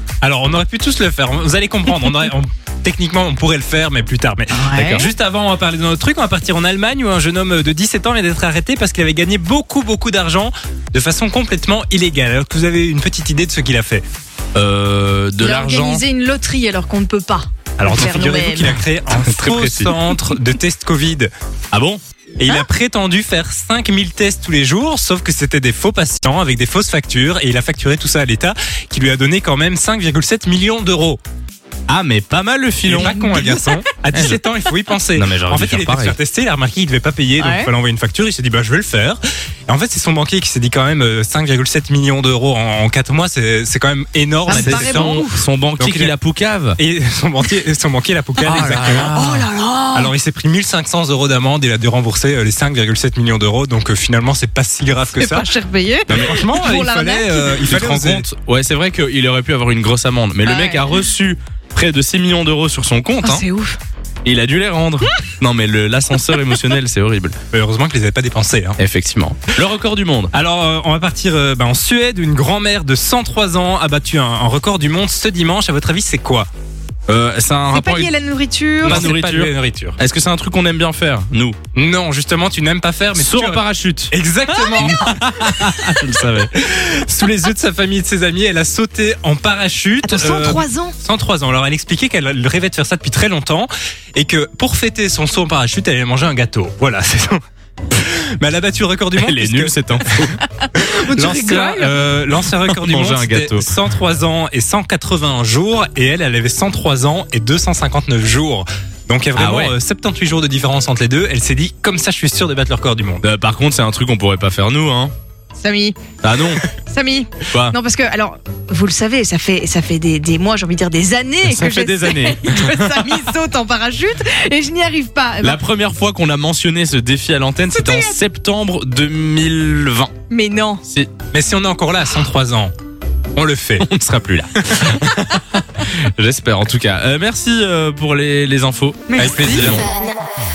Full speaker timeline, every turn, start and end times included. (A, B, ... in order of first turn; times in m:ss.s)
0:00.2-0:14.0 A
0:04.5-0:05.0 B
0:04.7-0:05.1 C
0:14.5-0:16.0 C
0:15.4-0:18.8 B
0:17.8-0:21.3 A
0:19.1-0:20.3 C
0:21.7-0:22.0 C
0:22.4-0:31.2 A
0:31.9-0:33.2 C
0:32.8-0:45.2 A
0:32.9-0:33.8 B
0:34.1-0:34.4 C
0:35.1-0:36.2 C
0:37.4-0:37.7 B
0:44.4-0:45.4 B
0:44.5-0:46.8 C
0:45.8-0:46.1 A
0:46.8-0:49.2 A
0:48.4-0:49.5 C
0:49.1-0:50.1 B
0:49.9-0:55.5 A
0:55.1-0:57.7 B
0:56.1-0:58.2 A
0:57.5-1:03.4 C
1:00.4-1:01.1 B
1:03.2-1:03.8 B
1:04.2-1:07.4 C
1:07.5-1:08.8 A
1:08.8-1:10.3 C
1:10.3-1:16.5 A
1:17.1-1:18.1 C
1:17.7-1:19.1 B
1:18.8-1:20.0 A
1:18.8-1:21.6 C
1:21.7-1:37.4 A
1:23.1-1:24.1 C
1:24.6-1:25.0 B
1:24.8-1:26.5 C
1:30.0-1:30.9 B
1:37.9-1:53.2 A
1:39.2-1:40.3 C
1:40.6-1:42.0 B
1:42.5-1:43.7 C
1:49.4-1:49.7 C
1:53.2-1:55.1 C
1:55.5-1:56.0 B
1:56.2-1:56.6 C
1:56.8-2:05.6 B
1:57.5-1:57.8 C
2:01.4-2:03.2 C
2:05.4-2:10.1 C
2:07.7-2:08.2 B
2:10.3-2:10.8 B
2:10.8-2:11.1 C
2:11.3-2:12.7 A
2:13.3-2:13.9 A
2:13.8-2:19.9 C
2:14.6-2:15.3 A
2:19.1-2:20.0 B
2:19.1-2:19.8 A